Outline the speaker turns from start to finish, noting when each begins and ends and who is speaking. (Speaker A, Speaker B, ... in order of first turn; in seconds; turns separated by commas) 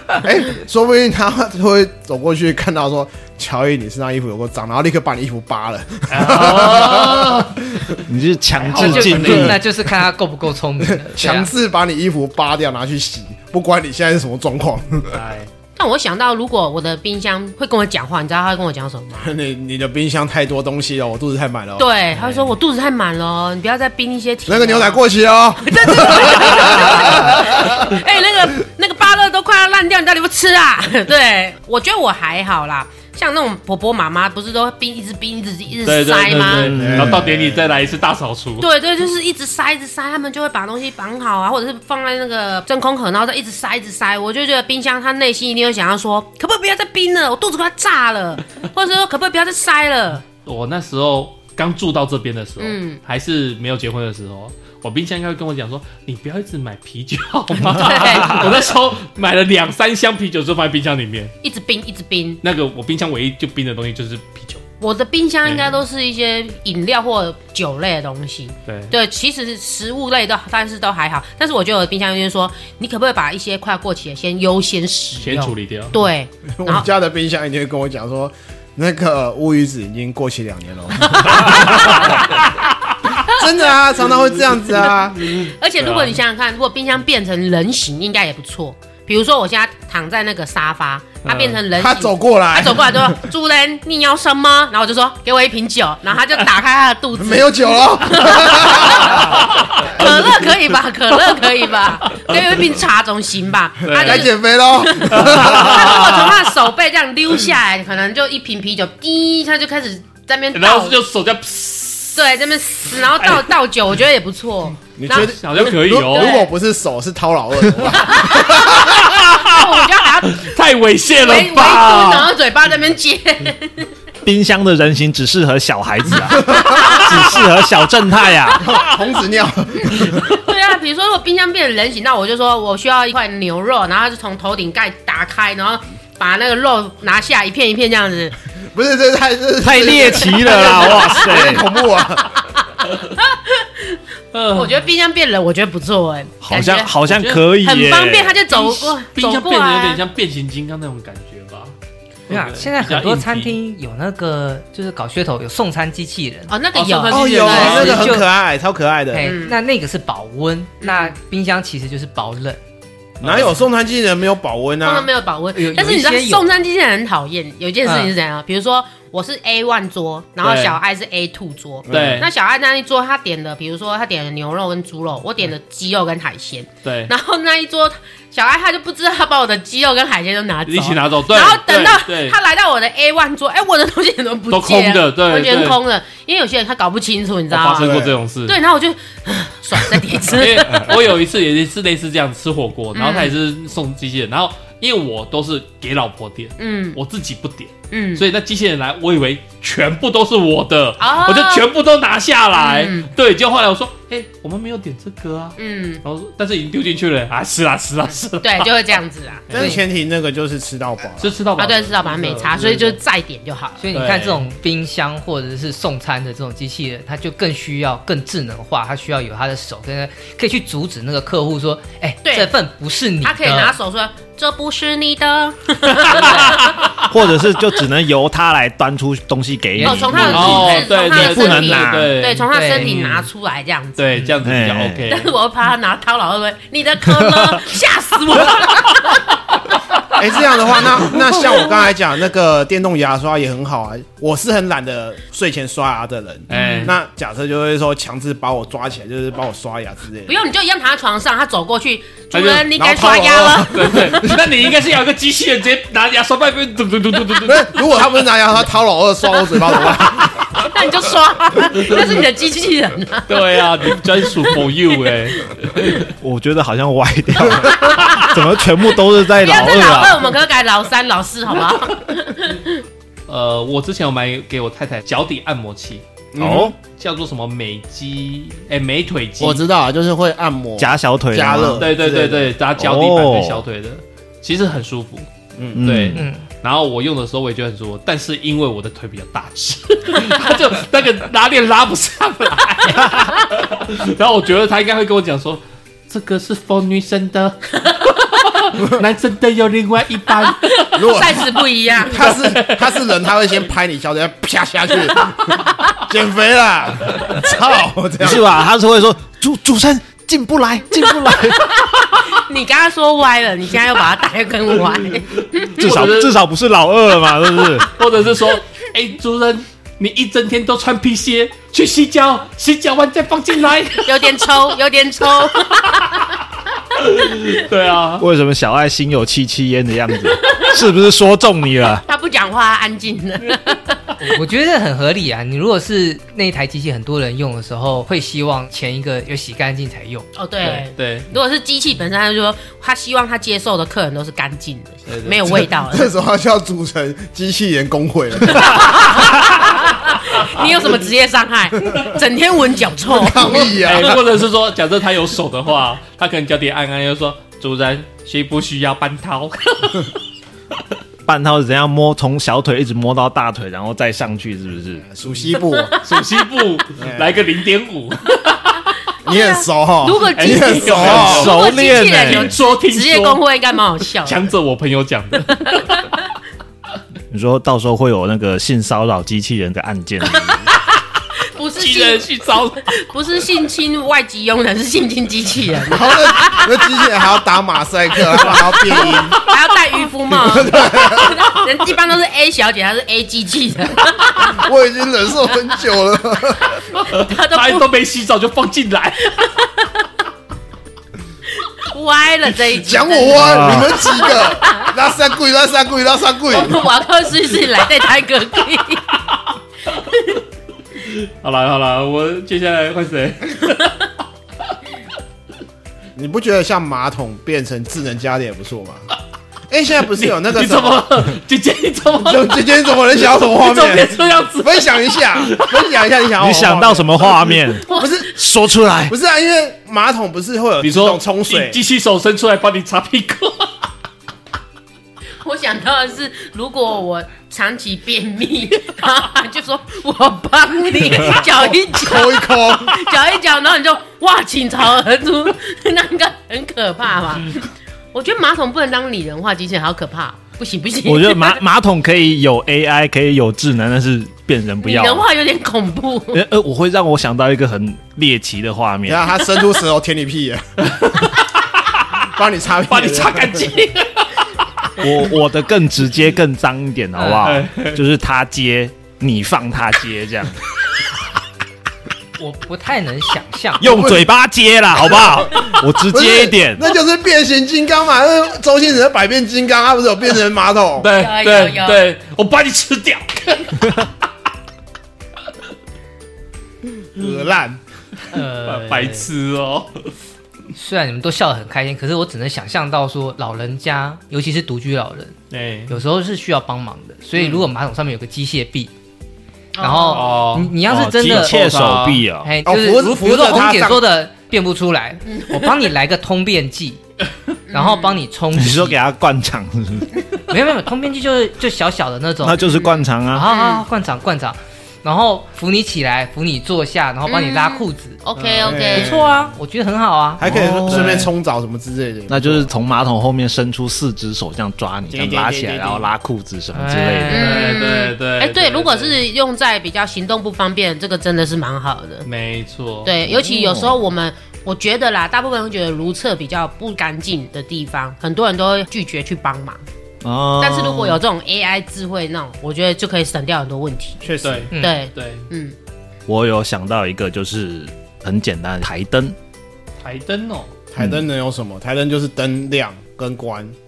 Speaker A: 0.2-8.0, Speaker B: 6.1-7.8, Speaker C: 8.1-9.6, Speaker B: 8.6-9.6, Speaker D: 8.7-11.5, Speaker A: 10.8-15.2, Speaker B: 15.1-15.5, Speaker E: 15.8-19.3, Speaker A: 19.2-21.9, Speaker E: 21.8-25.0, Speaker B: 22.1-22.5, Speaker A: 24.5-27.8, Speaker E: 25.6-36.7, Speaker B: 35.8-38.7, Speaker C: 36.6-37.2, Speaker A: 36.7-37.7, Speaker E: 38.6-50.3, Speaker B: 50.5-61.3, Speaker E: 52.6-53.0, Speaker E: 57.7-58.6, Speaker E: 61.4-62.4, Speaker B: 62.4-64.6, Speaker E: 64.8-76.9, Speaker B: 65.5-65.8, Speaker B: 68.7-69.0, Speaker B: 75.2-76.0, Speaker A: 76.6-82.3, Speaker E: 81.2-82.3, Speaker B: 81.6-81.9, Speaker A: 83.2-85.3, Speaker E: 85.2-111.0, Speaker B: 85.4-86.2, Speaker B: 91.2-91.6, Speaker A: 91.7-93.2, Speaker A: 97.2-99.5, Speaker B: 99.9-100.3, Speaker B: 102.1-102.7, Speaker B: 103.9-104.3, Speaker A: 103.9-105.9, Speaker B: 105.1-106.5, Speaker B: 110.5-112.3, Speaker E: 112.2-116.5, Speaker B: 112.9-113.5, Speaker A: 115.0-119.0, Speaker B: 115.1-116.4, Speaker E: 117.9-120.5, Speaker B: 118.3-122.3, Speaker E: 121.2-123.9, Speaker C: 124.2-128.7, Speaker E: 126.4-127.4, Speaker A: 128.6-130.4, Speaker E: 129.8-138.4, Speaker A: 138.7-142.3, Speaker C: 139.6-141.7, Speaker E: 140.3-144.0, Speaker B: 144.3-144.8, Speaker E: 144.5-147.0, Speaker C: 146.4-148.4, Speaker B: 147.1-147.5, Speaker E: 147.6-150.0, Speaker B: 148.5-151.8, Speaker B: 152.3-153.6, Speaker D: 152.3-156.6, Speaker E: 156.5-158.1, Speaker B: 156.7-158.0, Speaker A: 157.1-159.4, Speaker D: 157.2-158.3, Speaker D: 159.1-162.6, Speaker E: 159.2-159.6, Speaker E: 160.8-161.1, Speaker A: 163.2-165.1, Speaker B: 163.2-163.5, Speaker E: 164.8-191.0, Speaker D: 165.5-166.6, Speaker D: 167.8-168.1, Speaker B: 170.4-170.8, Speaker A: 171.9-172.3, Speaker B: 171.9-172.3, Speaker B: 176.8-177.1, Speaker B: 180.7-182.4, Speaker B: 184.5-185.8, Speaker B: 187.5-188.6, Speaker A: 187.8-188.1, Speaker B: 190.3-209.8, Speaker E: 192.9-193.3, Speaker E: 196.6-197.0, Speaker E: 197.9-198.2, Speaker E: 201.0-201.7, Speaker E: 202.6-203.1, Speaker E: 205.6-206.0, Speaker E: 208.4-209.5, Speaker A: 209.5-211.4, Speaker B: 211.2-213.0, Speaker E: 211.6-213.8, Speaker D: 213.8-223.8, Speaker B: 213.9-214.4, Speaker E: 222.2-222.5, Speaker E: 223.2-227.0, Speaker C: 226.9-232.2, Speaker D: 229.8-230.6, Speaker E: 229.8-234.3, Speaker B: 230.3-233.3, Speaker D: 232.5-233.0, Speaker B: 234.0-235.3, Speaker C: 234.4-235.1, Speaker E: 235.1-239.2, Speaker A: 240.2-250.4, Speaker B: 246.5-246.9, Speaker E: 246.5-246.9, Speaker E: 250.3-254.3, Speaker B: 252.3-252.7, Speaker A: 252.8-254.4, Speaker B: 253.7-257.9, Speaker A: 257.4-260.6, Speaker E: 260.6-263.9, Speaker B: 263.3-266.1, Speaker C: 266.2-270.3, Speaker E: 267.9-268.3, Speaker E: 269.4-272.8, Speaker B: 273.3-276.0, Speaker A: 276.3-276.7, Speaker C: 276.4-276.8, Speaker B: 276.8-279.6, Speaker A: 279.4-282.5, Speaker C: 280.8-281.9, Speaker B: 281.7-285.3, Speaker C: 282.8-283.6, Speaker A: 285.6-285.9, Speaker C: 285.7-286.2, Speaker B: 285.8-301.0, Speaker D: 286.1-286.4, Speaker E: 300.4-302.4, Speaker A: 300.9-301.5, Speaker A: 302.1-308.5, Speaker B: 302.2-302.9, Speaker C: 308.2-311.8, Speaker E: 311.5-316.2, Speaker B: 315.8-316.3, Speaker C: 315.8-317.9, Speaker B: 317.9-324.6, Speaker E: 324.0-326.3, Speaker B: 326.9-328.3, Speaker C: 328.2-332.0, Speaker E: 332.1-334.0, Speaker D: 334.2-340.3, Speaker E: 340.4-346.1, Speaker B: 340.6-341.3, Speaker B: 345.1-345.6, Speaker A: 345.9-349.3, Speaker E: 348.5-354.1, Speaker A: 353.1-354.2, Speaker B: 353.6-360.2, Speaker C: 361.3-365.1, Speaker A: 365.0-366.0, Speaker E: 365.7-366.0, Speaker B: 366.0-368.9, Speaker A: 367.0-367.4, Speaker A: 369.2-371.6, Speaker E: 369.3-374.5, Speaker B: 370.3-373.4, Speaker C: 371.1-372.6, Speaker B: 374.2-376.1, Speaker E: 375.6-376.1, Speaker C: 377.3-380.7, Speaker E: 380.5-380.8, Speaker E: 381.6-382.3, Speaker B: 381.8-382.9, Speaker E: 382.9-386.9, Speaker A: 385.9-389.4, Speaker E: 388.4-394.6, Speaker A: 390.3-391.5, Speaker A: 394.4-396.8, Speaker B: 397.0-399.5, Speaker E: 397.1-397.9, Speaker E: 399.4-400.1, Speaker E: 401.6-404.9, Speaker A: 402.8-406.8, Speaker C: 403.4-403.9, Speaker E: 406.5-409.2, Speaker E: 410.0-410.4, Speaker B: 411.0-414.1, Speaker A: 416.1-419.1, Speaker A: 419.7-421.1, Speaker B: 420.2-426.0, Speaker A: 422.2-428.3, Speaker C: 426.4-429.1, Speaker E: 427.9-428.2, Speaker A: 429.1-431.8, Speaker B: 430.8-433.8, Speaker E: 435.4-451.6, Speaker A: 441.4-443.1, Speaker C: 451.1-455.3, Speaker E: 454.8-456.4, Speaker C: 456.3-459.3, Speaker A: 459.1-460.6, Speaker B: 460.9-462.0, Speaker A: 462.3-463.7, Speaker B: 462.9-464.3, Speaker C: 465.0-470.6, Speaker B: 467.2-468.0, Speaker D: 472.4-473.9, Speaker C: 473.8-476.8, Speaker A: 473.8-474.2, Speaker A: 475.4-481.1, Speaker B: 481.0-484.1, Speaker E: 481.1-482.1, Speaker A: 487.2-487.8, Speaker D: 488.3-489.3, Speaker B: 488.6-490.1, Speaker D: 490.8-495.4, Speaker B: 495.5-496.0, Speaker D: 495.9-498.9, Speaker E: 499.8-500.4, Speaker D: 499.8-501.6, Speaker B: 500.1-502.3, Speaker C: 500.9-502.6, Speaker D: 502.4-507.0, Speaker A: 502.7-504.1, Speaker E: 505.3-505.9, Speaker E: 507.7-508.2, Speaker D: 507.7-509.0, Speaker C: 508.6-510.1, Speaker D: 510.5-518.2, Speaker C: 512.4-513.5, Speaker E: 512.6-513.9, Speaker E: 517.3-519.2, Speaker B: 518.4-518.8, Speaker A: 518.6-519.5, Speaker D: 518.9-520.4, Speaker A: 520.4-522.7, Speaker C: 520.4-521.3, Speaker B: 520.9-521.2, Speaker C: 522.3-527.5, Speaker A: 525.1-526.1, Speaker D: 526.7-527.9, Speaker E: 527.3-532.3, Speaker B: 527.3-529.2, Speaker B: 532.2-533.1, Speaker E: 533.0-539.8, Speaker C: 533.2-534.0, Speaker C: 540.2-541.2, Speaker E: 540.6-545.8, Speaker A: 544.2-544.7, Speaker B: 544.4-545.5, Speaker D: 544.7-545.0, Speaker C: 546.3-549.4, Speaker B: 550.0-550.7, Speaker A: 550.9-553.8